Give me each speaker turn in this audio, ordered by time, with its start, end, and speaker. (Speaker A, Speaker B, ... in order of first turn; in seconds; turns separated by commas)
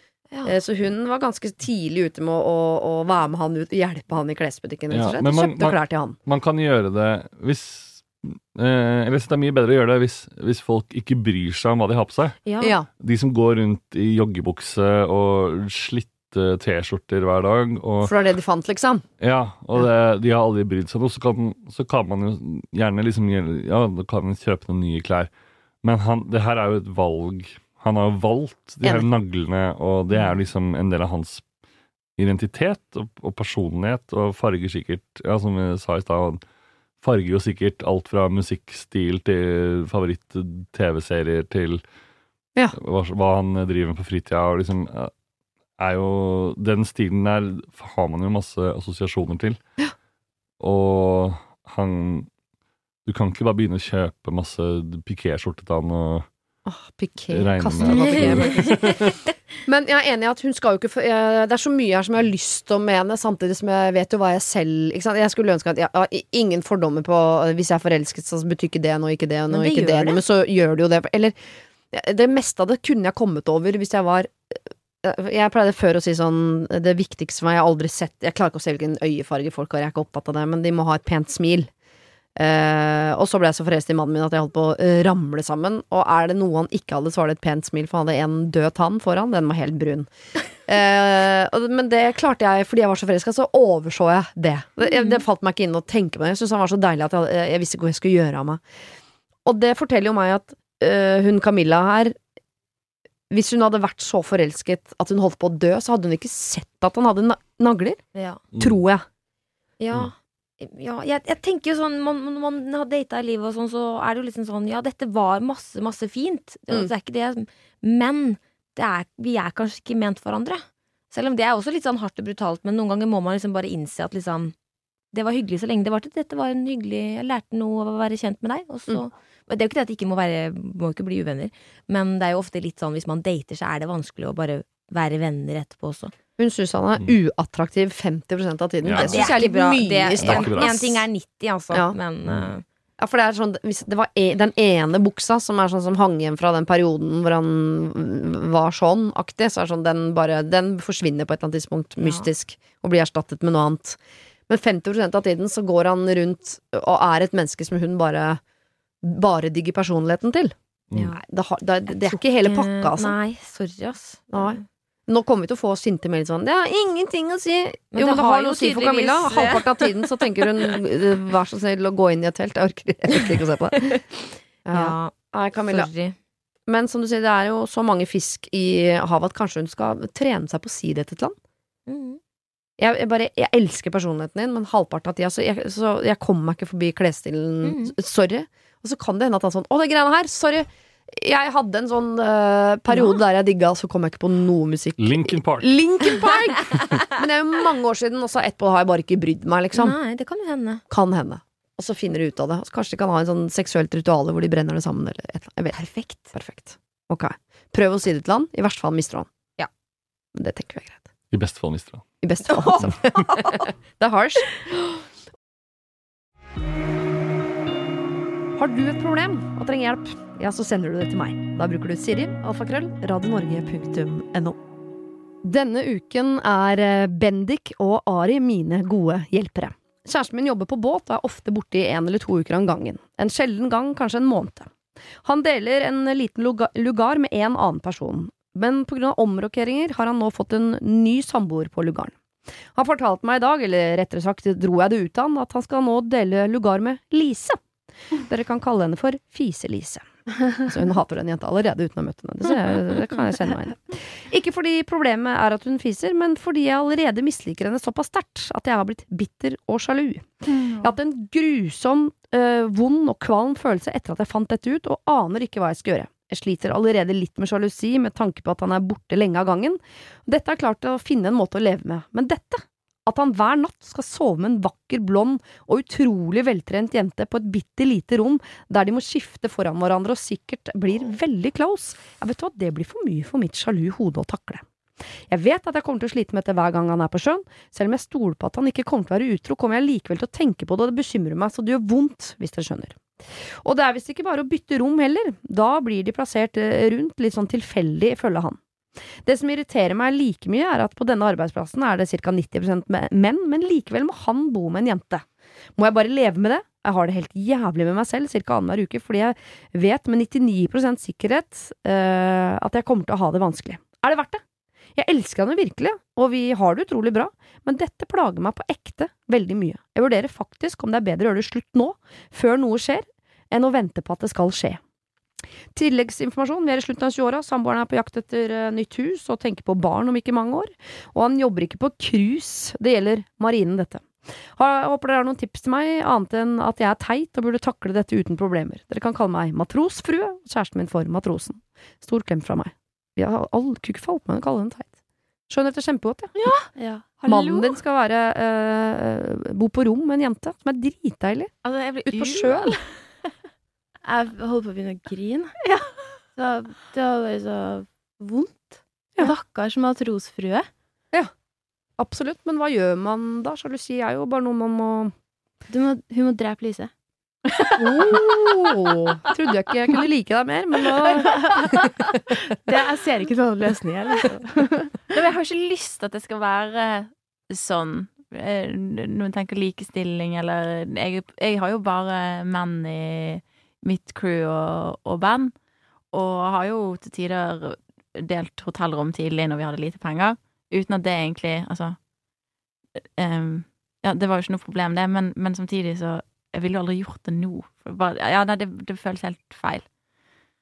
Speaker A: 0.3-0.6, Speaker B: 0.4-6.2, Speaker C: 4.9-12.4, Speaker A: 12.4-12.8, Speaker B: 12.6-12.9, Speaker C: 13.0-18.1, Speaker B: 18.0-19.0, Speaker C: 19.2-25.3, Speaker C: 25.8-31.4, Speaker C: 32.2-36.4, Speaker C: 37.0-41.8, Speaker C: 42.7-45.1, Speaker C: 45.8-49.6, Speaker C: 50.6-52.3, Speaker C: 53.0-56.3, Speaker B: 56.6-59.0, Speaker C: 57.3-58.7, Speaker A: 57.8-59.1, Speaker B: 59.6-71.4, Speaker A: 69.5-70.2, Speaker B: 71.9-81.7, Speaker B: 82.4-90.1, Speaker B: 90.7-98.6, Speaker B: 99.5-102.2, Speaker B: 103.3-108.0, Speaker A: 108.2-108.4, Speaker B: 108.6-109.0, Speaker A: 109.8-124.5, Speaker A: 125.1-136.1, Speaker B: 136.4-141.1, Speaker C: 138.8-139.4, Speaker A: 138.9-142.6, Speaker C: 140.2-140.7, Speaker B: 141.7-142.0, Speaker C: 142.2-142.5, Speaker B: 143.0-154.0, Speaker A: 152.0-152.3, Speaker B: 154.5-158.4, Speaker B: 159.0-160.5, Speaker A: 160.9-161.2, Speaker B: 161.1-163.2, Speaker A: 161.9-164.6, Speaker B: 164.3-174.0, Speaker A: 167.9-169.9, Speaker B: 174.7-175.9, Speaker A: 174.7-176.2, Speaker B: 176.7-181.4, Speaker A: 181.9-182.2, Speaker B: 182.8-200.0, Speaker A: 187.6-188.0, Speaker A: 192.9-193.2, Speaker C: 195.0-195.7, Speaker A: 199.7-200.8, Speaker B: 200.9-209.7, Speaker A: 205.8-206.2, Speaker B: 210.3-211.1, Speaker C: 211.3-212.0, Speaker B: 212.2-214.5, Speaker B: 218.6-224.6, Speaker B: 225.4-234.7, Speaker B: 235.2-242.1, Speaker B: 242.8-247.6, Speaker B: 248.2-250.1, Speaker B: 250.6-284.6, Speaker B: 285.3-298.6, Speaker B: 299.2-305.2, Speaker B: 305.8-314.4, Speaker B: 315.0-324.8, Speaker B: 325.7-344.9, Speaker B: 345.5-346.3, Speaker D: 346.4-347.8, Speaker B: 347.3-351.5, Speaker D: 351.6-352.8, Speaker B: 352.1-352.8, Speaker D: 354.0-355.5, Speaker D: 356.3-360.7, Speaker B: 362.0-365.1, Speaker D: 365.7-366.9, Speaker D: 367.5-368.4, Speaker B: 367.8-371.4, Speaker D: 371.0-372.1, Speaker D: 372.7-374.9, Speaker E: 375.1-385.5, Speaker E: 386.1-392.0, Speaker E: 393.0-399.9